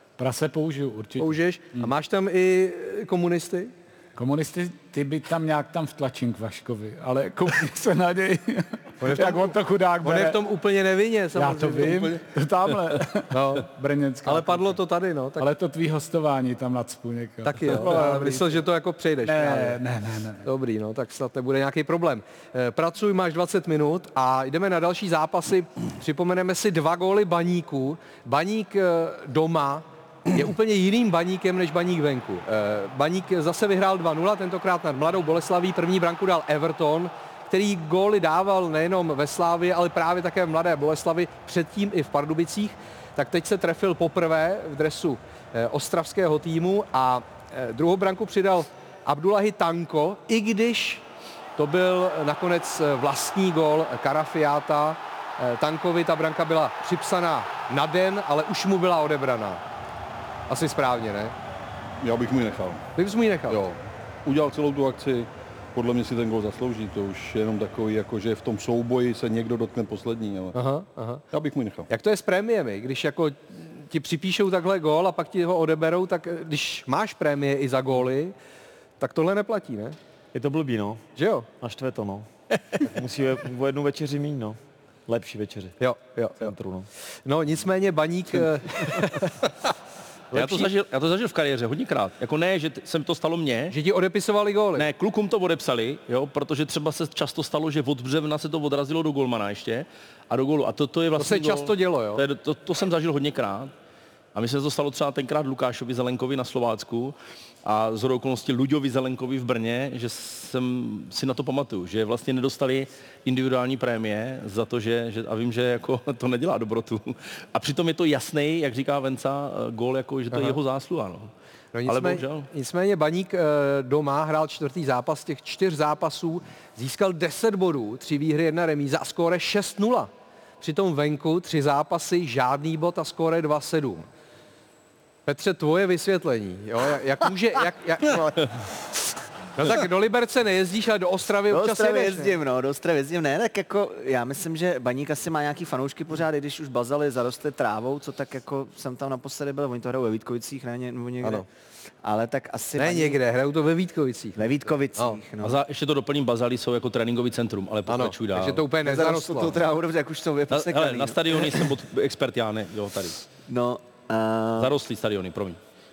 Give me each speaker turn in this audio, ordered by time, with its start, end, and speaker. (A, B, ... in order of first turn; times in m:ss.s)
0:00.2-0:01.9 A
0:01.2-0:03.7 B
0:04.2-0:10.4 A
0:09.0-0:12.2 B
0:11.3-0:14.8 A
0:13.3-0:13.7 B
0:14.2-0:15.5 B
0:15.4-0:18.6 A
0:17.4-0:19.8 B
0:19.2-0:20.4 A
0:20.4-0:51.0 B
0:51.6-0:59.6 B
1:00.5-1:01.3 B
1:02.0-1:02.8 C
1:03.0-1:03.6 B
1:03.5-1:10.6 C
1:10.5-1:11.2 B
1:11.3-1:11.9 C
1:11.9-1:18.3 B
1:19.0-1:20.0 B
1:20.3-1:22.3 D
1:21.2-1:21.5 B
1:22.8-1:25.8 D
1:25.8-1:26.5 B
1:26.4-1:26.9 D
1:27.2-1:29.7 B
1:30.3-1:30.7 B
1:30.3-1:33.8 E
1:33.7-1:34.8 B
1:34.8-1:43.7 E
1:41.2-1:42.2 B
1:44.3-2:01.3 E
2:00.3-2:00.6 B
2:01.7-2:14.1 B
2:01.9-2:02.5 E
2:15.3-2:18.4 B
2:19.6-2:22.3 B
2:21.5-2:31.5 F
2:32.0-2:33.2 F
2:32.8-2:34.4 B
2:34.4-2:35.6 F
2:35.0-2:35.2 B
2:35.4-2:38.7 E
2:37.9-2:39.6 B
2:38.8-2:41.7 F
2:40.5-2:43.2 E
2:43.5-2:44.7 F
2:44.6-2:45.6 E